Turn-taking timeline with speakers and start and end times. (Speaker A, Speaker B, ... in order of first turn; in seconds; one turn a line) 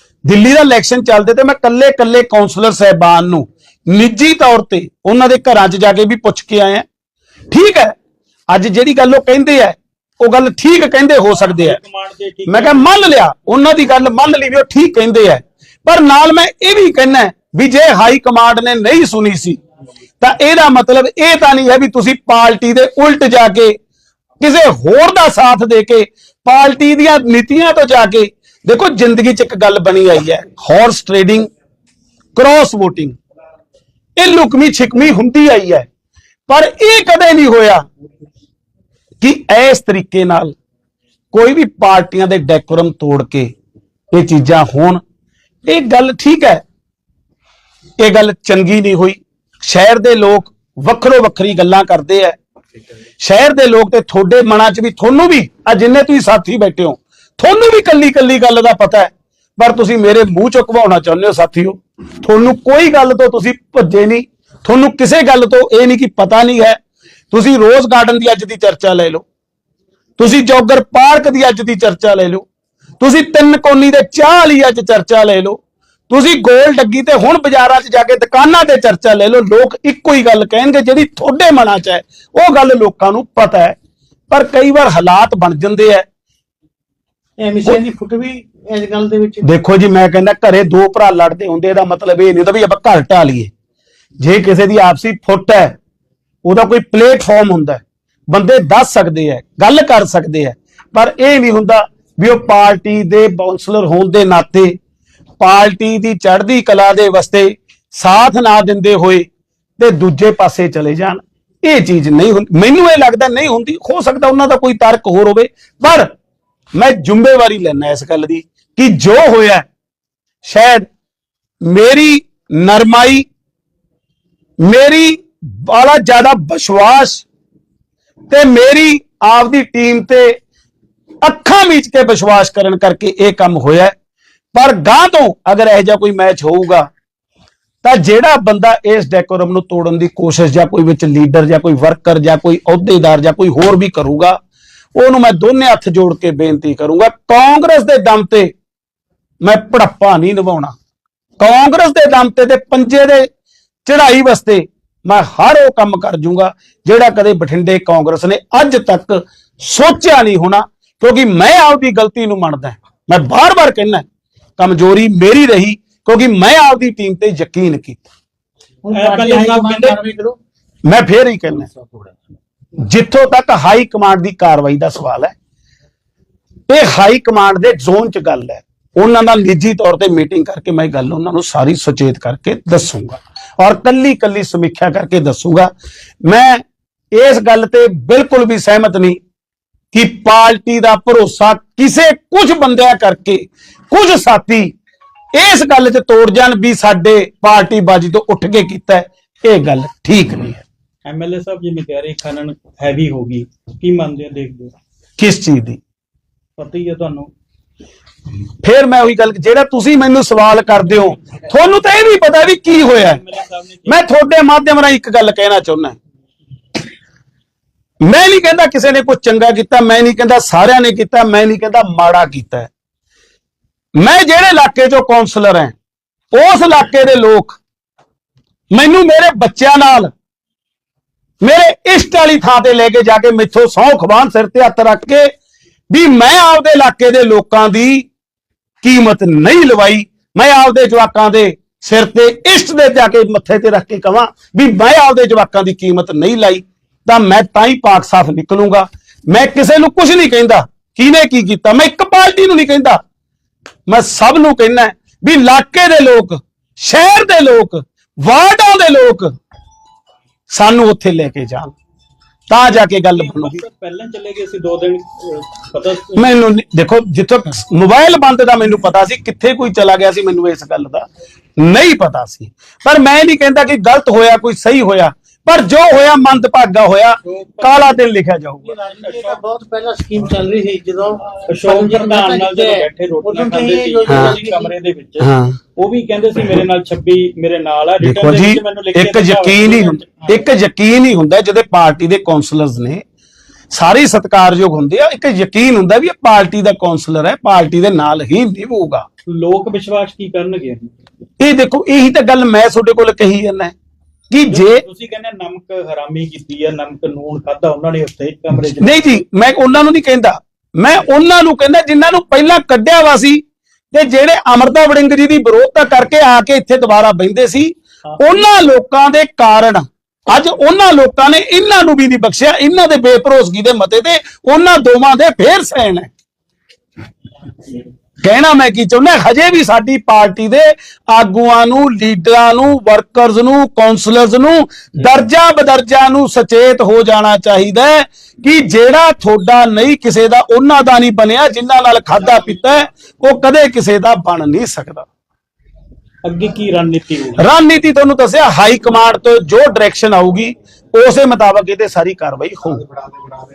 Speaker A: 0.2-6.8
Speaker A: 7.5-7.9
Speaker A: 8.5-11.8
Speaker B: 11.5-13.0
Speaker A: 12.5-19.6
Speaker A: 20.2-23.8
Speaker A: 24.4-31.5
Speaker A: 32.4-33.2
Speaker A: 34.2-35.9
Speaker A: 36.5-37.9
Speaker A: 39.2-40.5
Speaker A: 41.3-43.5
Speaker A: 44.1-45.0
Speaker A: 45.6-46.6
Speaker A: 48.0-52.4
Speaker A: 53.2-66.8
Speaker A: 67.3-69.2
Speaker A: 70.2-72.5
Speaker A: 73.0-83.8
Speaker A: 84.3-86.0
Speaker C: 87.4-89.4
Speaker A: 89.4-93.5
Speaker A: 94.2-95.8
Speaker A: 96.4-104.8
Speaker A: 105.4-109.3
Speaker A: 109.8-116.1
Speaker A: 116.7-119.7
Speaker A: 120.4-120.9
Speaker A: 121.6-123.2
Speaker A: 124.6-127.2
Speaker A: 128.3-130.4
Speaker A: 131.2-133.9
Speaker A: 134.5-136.9
Speaker A: 137.8-144.4
Speaker A: 144.9-148.5
Speaker A: 149.4-150.7
Speaker A: 151.4-153.3
Speaker A: 153.9-164.0
Speaker A: 164.6-168.0
Speaker C: 168.8-170.4
Speaker B: 168.9-170.0
Speaker A: 170.8-171.7
Speaker C: 171.7-172.1
Speaker A: 172.8-175.3
Speaker A: 176.7-185.7
Speaker A: 186.2-189.2
Speaker A: 189.9-194.7
Speaker A: 195.3-200.6
Speaker B: 201.0-204.7
Speaker A: 205.2-205.8
Speaker B: 206.6-207.3
Speaker A: 208.6-213.2
Speaker B: 212.8-214.0
Speaker A: 213.9-216.0
Speaker A: 218.0-222.7
Speaker A: 223.9-225.8
Speaker A: 226.3-227.6
Speaker A: 228.7-230.1
Speaker A: 231.4-235.3
Speaker A: 235.9-238.1
Speaker A: 238.8-253.0
Speaker A: 253.9-259.4
Speaker A: 260.5-261.7
Speaker A: 262.5-263.6
Speaker B: 263.1-266.3
Speaker A: 266.1-278.7
Speaker C: 278.6-284.7
Speaker B: 279.0-279.4
Speaker B: 281.5-290.3
Speaker A: 284.1-284.4
Speaker A: 285.2-285.6
Speaker A: 288.0-293.0
Speaker A: 293.7-299.1
Speaker B: 299.3-301.0
Speaker A: 301.4-303.7
Speaker A: 304.3-304.8
Speaker B: 304.5-309.0
Speaker A: 308.8-326.1
Speaker B: 318.2-318.4
Speaker A: 328.2-345.1
Speaker B: 346.2-347.4
Speaker A: 347.4-352.8